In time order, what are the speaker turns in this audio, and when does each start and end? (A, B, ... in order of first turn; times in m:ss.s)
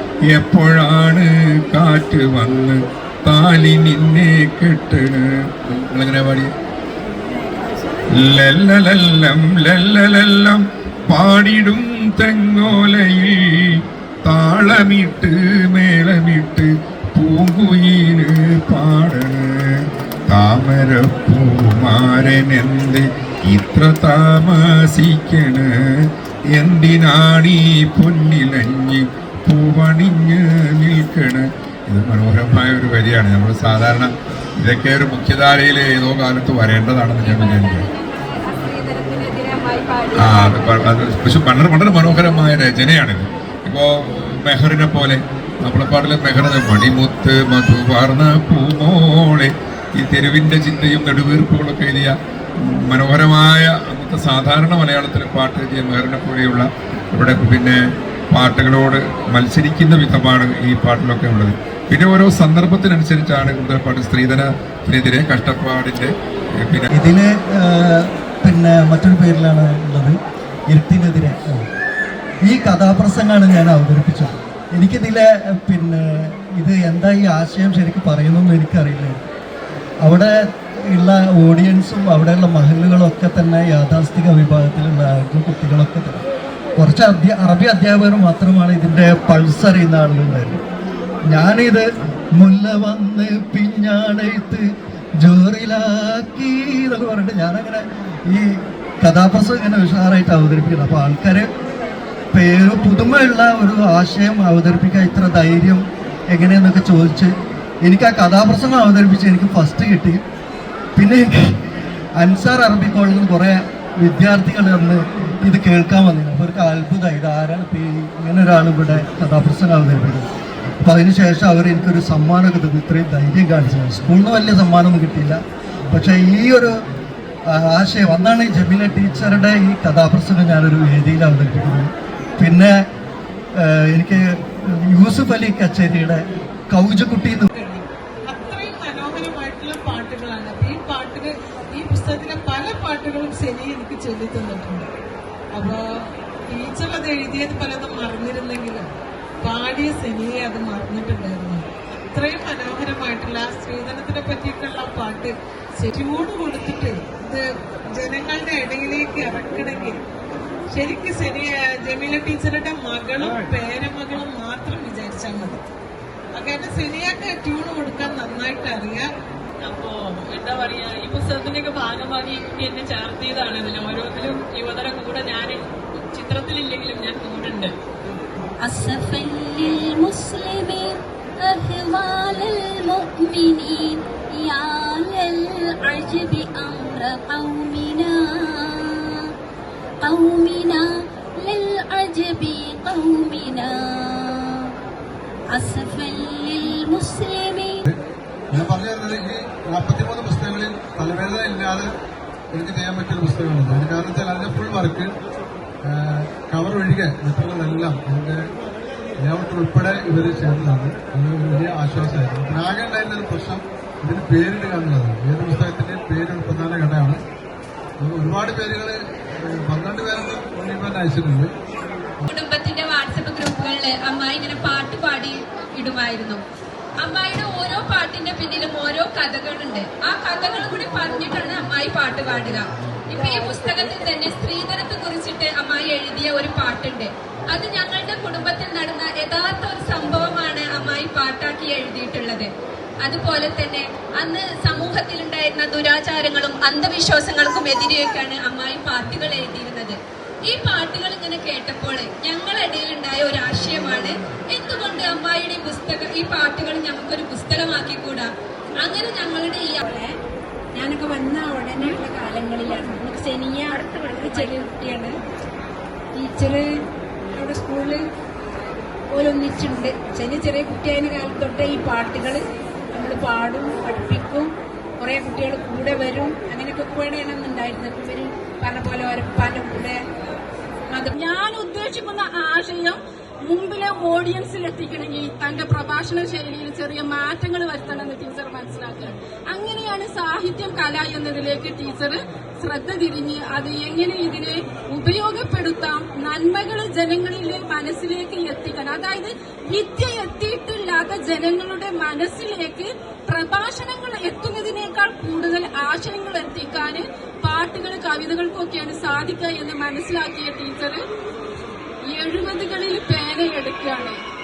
0:00.3-0:06.5 A
0:07.4-0:07.8 B
0:08.1-0:37.9 A
0:37.2-0:40.7 B
0:40.1-0:57.8 A
0:58.3-1:06.9 A
1:06.9-1:10.2 C
1:10.7-1:11.6 C
1:12.4-1:19.2 C
1:20.0-1:20.3 C
1:20.9-1:26.2 C
1:26.8-1:30.5 C
1:31.3-1:31.8 C
1:32.4-1:34.6 C
1:35.2-1:41.5 C
1:42.3-1:47.3 C
1:47.8-1:50.2 C
1:51.0-1:51.6 C
1:52.2-2:00.3 C
2:00.8-2:05.4 C
2:05.9-2:06.8 C
2:07.5-2:12.7 C
2:13.6-2:17.4 C
2:17.5-2:24.9 D
2:25.5-2:25.8 D
2:26.5-2:28.8 D
2:29.4-2:40.0 D
2:40.7-2:45.6 D
2:46.3-2:49.1 D
2:49.6-2:57.7 E
2:58.6-3:09.3 F
3:10.0-3:10.8 F
3:11.4-3:14.7 F
3:15.5-3:17.8 F
3:18.5-3:21.9 G
3:22.5-3:25.1 G
3:25.8-3:28.4 G
3:29.2-3:37.2 G
3:38.0-3:41.5 G
3:42.3-3:46.4 H
3:47.0-4:02.5 H
4:03.0-4:18.3 H
4:18.8-4:19.8 H
4:20.7-4:25.1 B
4:26.2-4:26.6 B
4:27.3-4:28.0 B
4:29.1-4:40.0 B
4:41.2-5:11.0 I
5:12.1-5:14.2 I